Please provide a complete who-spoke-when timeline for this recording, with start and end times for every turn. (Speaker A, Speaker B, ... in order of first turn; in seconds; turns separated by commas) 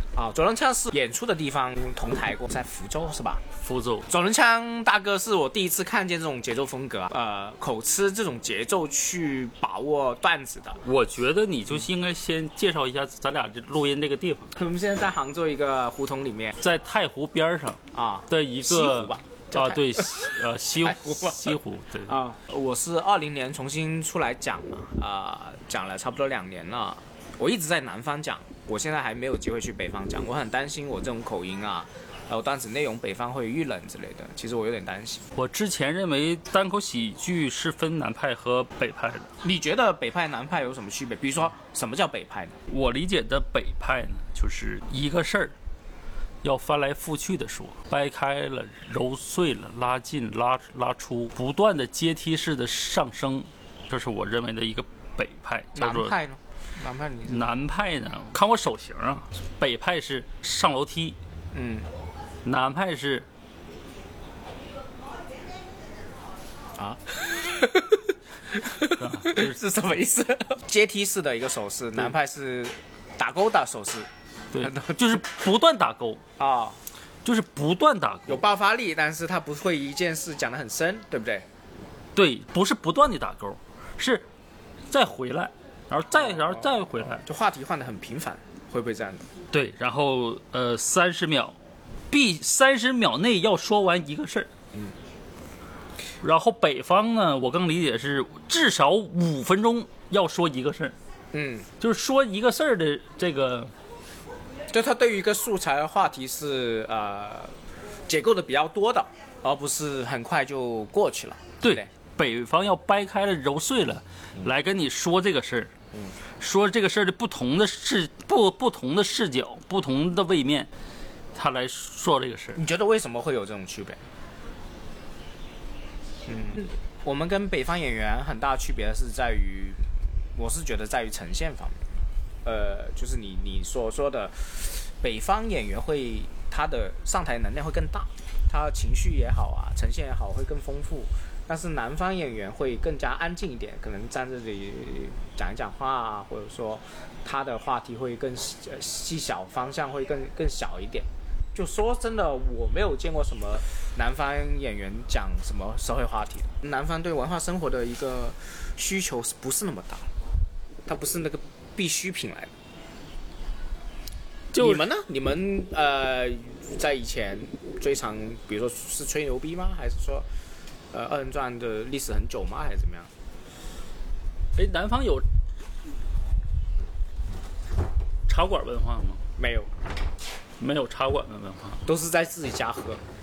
Speaker A: 0.1-3.4, Speaker B: 3.6-4.1, Speaker A: 4.1-10.8, Speaker B: 10.8-14.5, Speaker A: 14.6-16.6, Speaker B: 16.6-22.1, Speaker A: 17.9-35.2, Speaker B: 35.3-39.3, Speaker A: 39.4-42.6, Speaker B: 42.7-45.5, Speaker B: 46.4-56.1, Speaker A: 55.8-57.5, Speaker B: 57.3-61.2, Speaker A: 61.5-61.9, Speaker B: 62.4-63.3, Speaker A: 66.8-74.1, Speaker B: 68.9-69.6, Speaker B: 74.5-76.2, Speaker A: 74.6-75.2, Speaker A: 76.4-76.8, Speaker B: 77.2-78.4, Speaker A: 78.3-81.5, Speaker B: 82.2-84.3, Speaker B: 84.9-87.2, Speaker A: 86.2-89.3, Speaker B: 89.5-91.6, Speaker B: 92.1-94.5, Speaker B: 96.2-101.0, Speaker A: 101.3-101.7, Speaker B: 101.8-103.7, Speaker A: 104.7-111.9, Speaker B: 111.6-115.7, Speaker B: 116.4-120.7, Speaker B: 121.3-122.6, Speaker A: 122.6-124.0, Speaker A: 126.3-131.8, Speaker A: 132.4-160.1, Speaker A: 160.9-162.5, Speaker B: 164.5-164.8, Speaker A: 164.6-170.3, Speaker A: 170.9-173.1, Speaker B: 174.6-175.3, Speaker B: 178.3-179.2, Speaker A: 179.4-179.7, Speaker B: 180.6-181.8, Speaker A: 181.8-183.0